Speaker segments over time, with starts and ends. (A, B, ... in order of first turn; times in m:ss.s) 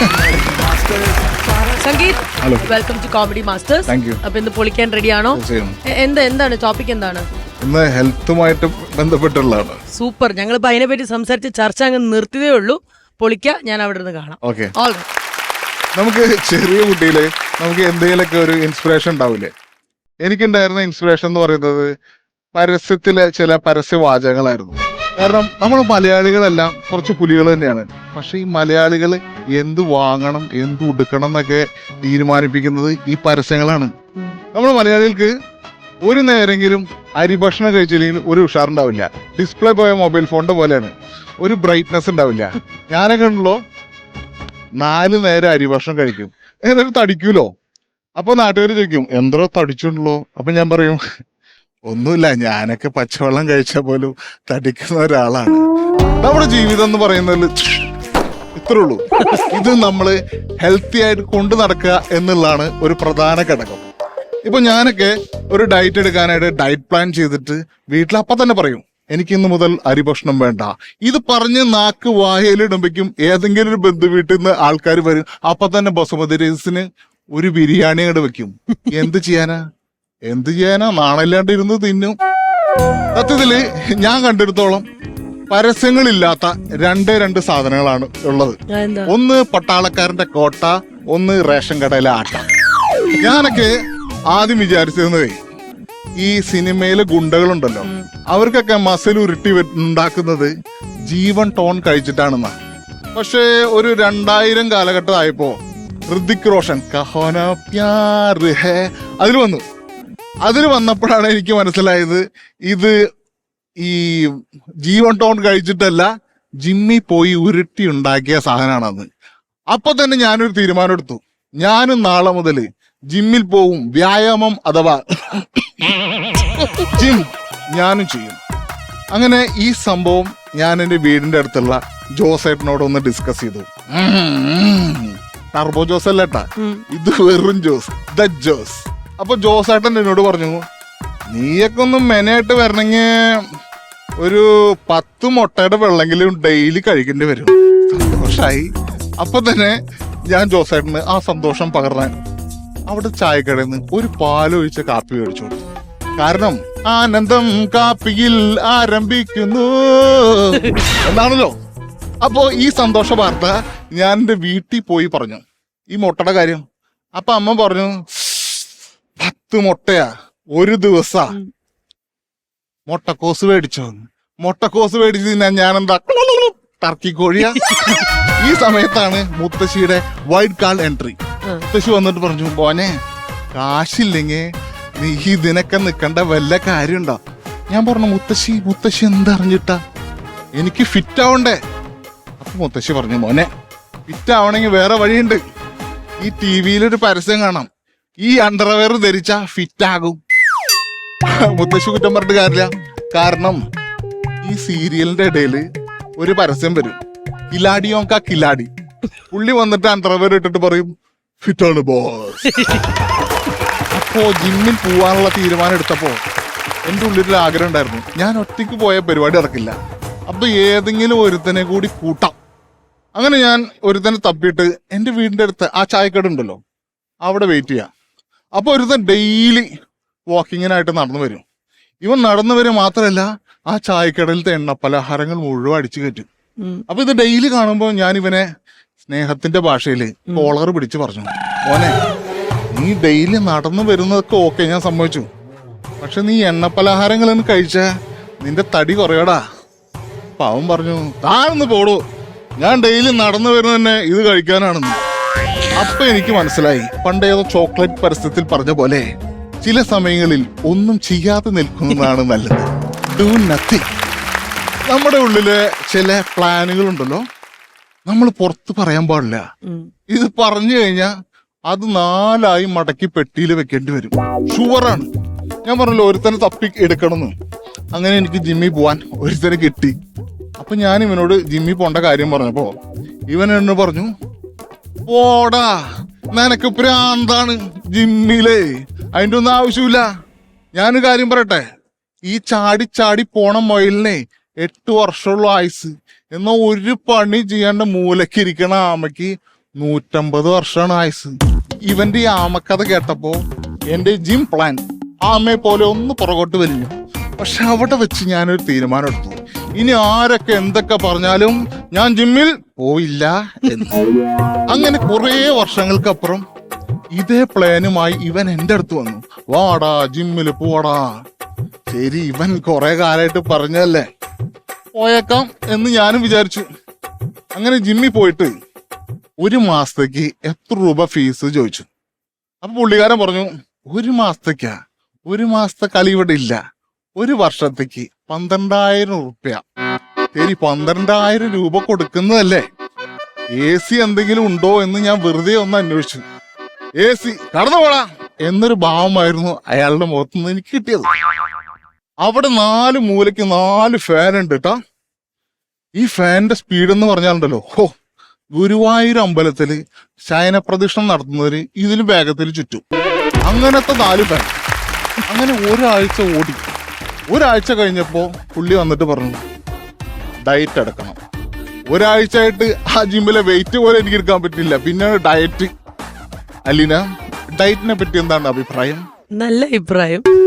0:01.8-0:05.4 A
0:02.4-0:02.7 B
0:03.9-0:04.2 B
0:05.3-0:05.7 B
0:06.0-0:07.2 A
0:07.6-0:09.8 B
0:09.9-0:15.0 A
0:14.4-0:14.7 B
0:16.0-0:19.5 B
0:20.2-0:21.9 B
0:22.5-0:33.9 B
0:34.5-0:35.3 B
0:36.0-0:43.6 B
0:44.8-0:47.5 B
0:48.2-0:51.0 B
0:51.9-0:55.6 B
0:56.2-0:57.9 B
0:58.6-0:59.0 B
0:59.5-1:03.8 B
1:04.4-1:19.6 B
1:20.3-1:22.1 B
1:23.1-1:24.8 B
1:25.5-1:28.6 B
1:28.7-1:29.1 A
1:29.1-1:32.5 B
1:33.2-1:33.7 B
1:34.3-1:35.3 B
1:36.2-1:40.5 B
1:41.1-1:42.5 B
1:43.1-1:45.6 B
1:46.1-1:49.6 B
1:50.4-1:52.9 B
1:53.8-1:56.1 B
1:56.6-1:59.1 B
1:59.7-2:05.8 B
2:06.8-2:08.4 B
2:09.1-2:20.6 B
2:16.6-2:16.8 A
2:21.3-2:23.4 B
2:24.2-2:28.7 B
2:29.2-2:29.8 B
2:30.3-2:32.2 B
2:32.9-2:35.6 B
2:36.2-2:41.5 B
2:42.2-2:46.6 B
2:47.2-2:48.6 B
2:49.2-2:51.3 B
2:52.9-3:01.2 B
2:57.4-2:58.0 A
3:01.7-3:02.9 B
3:03.5-3:04.4 B
3:05.0-3:07.2 B
3:07.7-3:09.8 B
3:10.6-3:11.6 B
3:12.4-3:13.5 B
3:14.1-3:15.4 B
3:16.2-3:17.7 B
3:18.2-3:20.2 B
3:21.3-3:23.6 B
3:24.4-3:25.6 B
3:26.2-3:27.0 B
3:27.5-3:28.7 B
3:29.3-3:30.9 B
3:31.4-3:32.5 B
3:32.5-3:32.8 A
3:33.9-3:36.2 B
3:36.8-3:39.7 B
3:40.3-3:42.3 B
3:43.1-3:46.6 B
3:47.2-3:47.9 B
3:48.6-3:49.7 B
3:50.3-3:51.4 B
3:52.0-3:56.3 B
3:56.9-3:58.4 B
3:59.0-4:02.0 B
4:02.7-4:05.2 B
4:06.0-4:07.9 B
4:08.4-4:09.4 B
4:10.4-4:12.0 B
4:12.6-4:15.0 B
4:15.8-4:19.0 B
4:19.6-4:23.8 B
4:24.9-4:27.2 B
4:28.1-4:29.4 B
4:30.1-4:31.1 B
4:31.7-4:35.1 B
4:35.6-4:37.3 B
4:37.9-4:40.0 B
4:40.6-4:42.7 B
4:43.3-4:44.1 B
4:45.1-4:45.8 B
4:46.3-4:50.1 B
4:50.7-4:51.6 B
4:52.3-5:01.3 B
5:01.8-5:03.4 B
5:03.9-5:14.0 B
5:14.7-5:16.4 B
5:17.1-5:21.1 B
5:21.9-5:24.0 B
5:24.9-5:26.6 B
5:27.6-5:28.5 B
5:29.4-5:31.9 B
5:32.6-5:34.7 B
5:35.3-5:36.6 B
5:37.2-5:39.6 B
5:40.3-5:42.6 B
5:43.6-5:46.2 B
5:47.0-5:51.1 B
5:52.2-5:54.8 B
5:56.0-5:57.9 B
5:58.5-6:02.8 B
6:03.4-6:04.5 B
6:05.3-6:06.7 B
6:07.3-6:09.4 B
6:10.4-6:11.2 B
6:11.9-6:15.7 B
6:16.7-6:17.0 B
6:17.5-6:19.0 B
6:19.4-6:20.2 A